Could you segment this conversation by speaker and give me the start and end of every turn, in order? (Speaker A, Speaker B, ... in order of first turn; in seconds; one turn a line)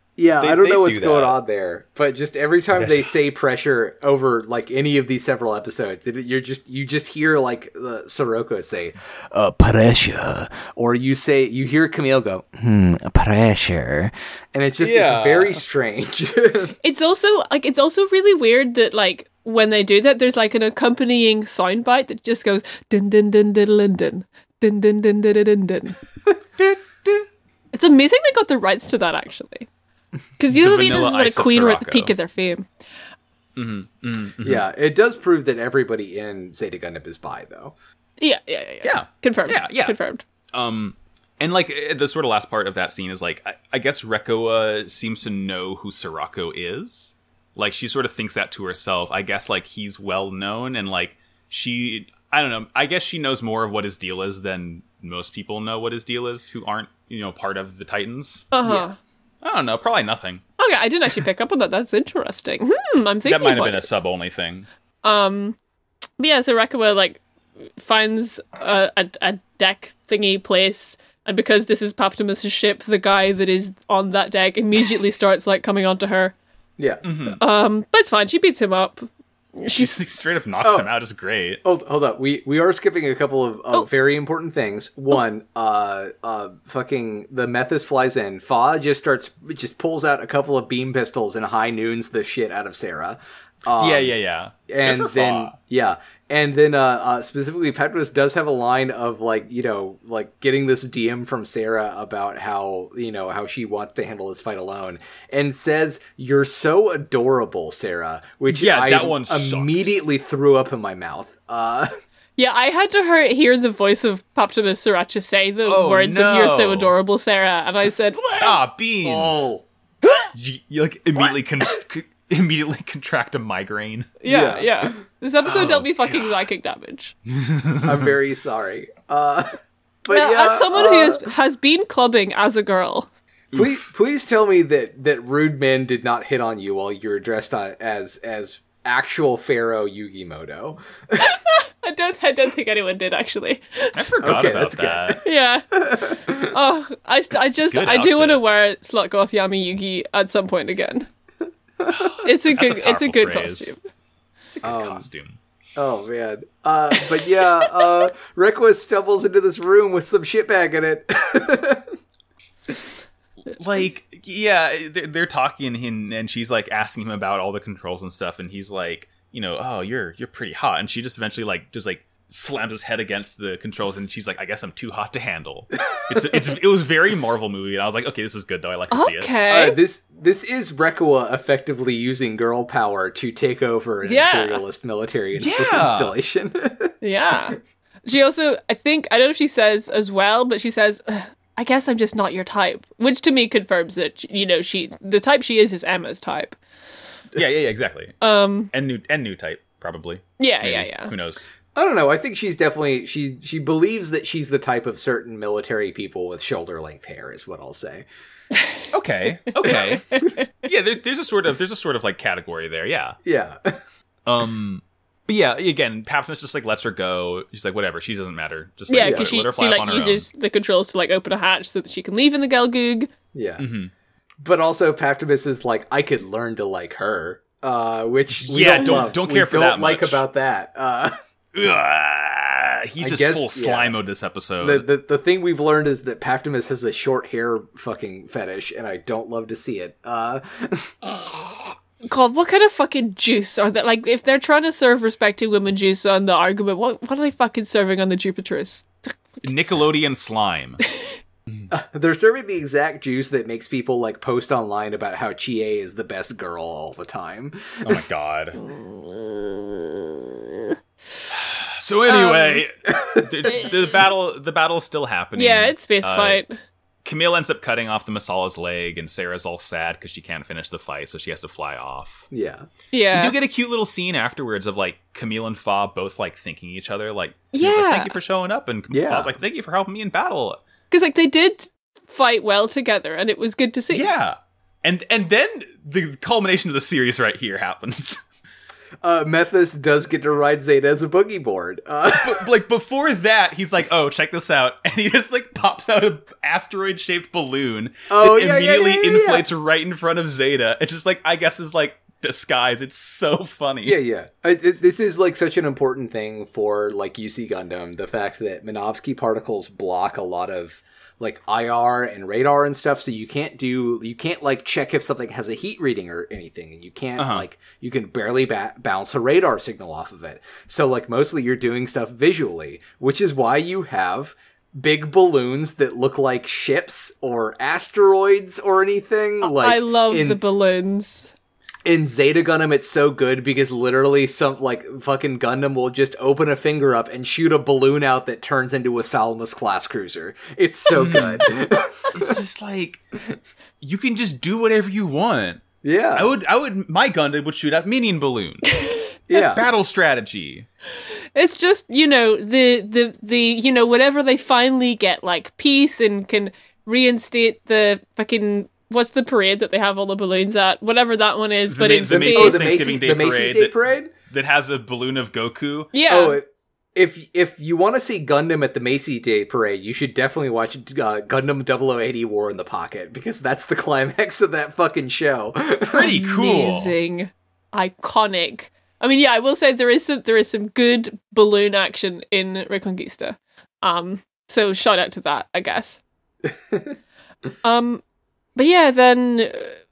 Speaker A: 0.2-16.7
Speaker B: 0.4-1.4
Speaker B: 2.7-3.1
Speaker B: 14.8-15.6
Speaker C: 16.8-26.0
Speaker A: 26.3-27.1
Speaker C: 27.7-29.7
Speaker C: 30.4-32.7
Speaker B: 30.5-32.1
Speaker B: 33.5-34.6
Speaker A: 34.4-37.7
Speaker C: 38.2-40.2
Speaker B: 38.8-39.9
Speaker B: 40.5-58.5
Speaker C: 58.5-59.0
Speaker B: 59.4-60.4
Speaker C: 60.6-63.9
Speaker B: 63.2-64.7
Speaker C: 65.0-65.5
Speaker C: 66.2-67.2
Speaker C: 67.8-76.3
Speaker A: 76.8-77.0
Speaker B: 77.0-77.4
Speaker C: 77.3-80.0
Speaker B: 79.7-81.6
Speaker A: 80.6-80.9
Speaker A: 81.6-94.1
Speaker B: 93.8-95.5
Speaker A: 94.7-111.9
Speaker B: 108.5-109.9
Speaker C: 112.4-118.6
Speaker B: 115.6-116.9
Speaker B: 118.4-119.5
Speaker A: 119.0-119.6
Speaker B: 120.3-124.1
Speaker C: 124.2-127.1
Speaker A: 124.2-124.9
Speaker B: 125.4-126.3
Speaker B: 127.3-128.1
Speaker A: 127.8-129.5
Speaker A: 130.0-131.3
Speaker C: 130.1-133.1
Speaker B: 133.5-133.8
Speaker A: 133.5-141.2
Speaker C: 141.2-144.0
Speaker B: 143.9-145.2
Speaker A: 144.2-145.2
Speaker C: 145.2-151.1
Speaker A: 145.7-146.5
Speaker B: 147.6-148.4
Speaker A: 151.8-152.0
Speaker B: 151.9-153.7
Speaker C: 152.2-153.8
Speaker B: 154.5-155.4
Speaker A: 154.6-155.1
Speaker A: 155.7-161.9
Speaker B: 163.5-179.3
Speaker C: 178.9-179.8
Speaker A: 179.5-186.9
Speaker C: 184.0-184.6
Speaker B: 185.3-186.1
Speaker C: 187.0-196.6
Speaker B: 197.3-198.2
Speaker C: 198.2-198.7
Speaker B: 198.7-201.5
Speaker C: 200.4-201.1
Speaker A: 201.7-208.1
Speaker B: 208.9-213.2
Speaker C: 209.7-210.5
Speaker A: 213.2-213.8
Speaker B: 214.2-220.2
Speaker C: 218.9-223.1
Speaker A: 218.9-219.3
Speaker A: 223.3-223.6
Speaker B: 223.6-223.9
Speaker A: 224.4-231.1
Speaker B: 228.3-230.2
Speaker B: 231.5-234.9
Speaker A: 233.0-233.9
Speaker A: 234.6-241.7
Speaker C: 242.0-249.5
Speaker B: 249.4-250.8
Speaker A: 251.7-258.0
Speaker B: 257.8-258.6
Speaker C: 258.6-260.7
Speaker B: 261.3-266.4
Speaker C: 262.1-262.6
Speaker A: 262.9-263.3
Speaker C: 265.4-266.6
Speaker B: 267.0-272.3
Speaker A: 272.3-272.6
Speaker C: 272.9-273.3
Speaker B: 273.1-280.6
Speaker C: 277.5-278.1
Speaker A: 278.9-279.3
Speaker C: 280.9-284.1
Speaker B: 283.9-288.2
Speaker A: 289.0-292.5
Speaker B: 292.2-304.0
Speaker A: 298.1-299.4
Speaker A: 303.8-330.4
Speaker B: 317.2-317.4
Speaker C: 329.4-331.3
Speaker A: 331.8-342.4
Speaker B: 340.9-341.5
Speaker B: 342.1-343.0
Speaker B: 343.8-348.8
Speaker A: 345.8-346.3
Speaker A: 349.3-349.6
Speaker B: 349.3-350.7
Speaker C: 351.3-362.9
Speaker B: 361.7-363.7
Speaker A: 362.0-364.1
Speaker B: 364.3-365.9
Speaker C: 365.9-366.4
Speaker A: 366.1-376.1
Speaker B: 375.9-376.9
Speaker C: 375.9-386.0
Speaker C: 387.6-388.0
Speaker C: 388.6-389.8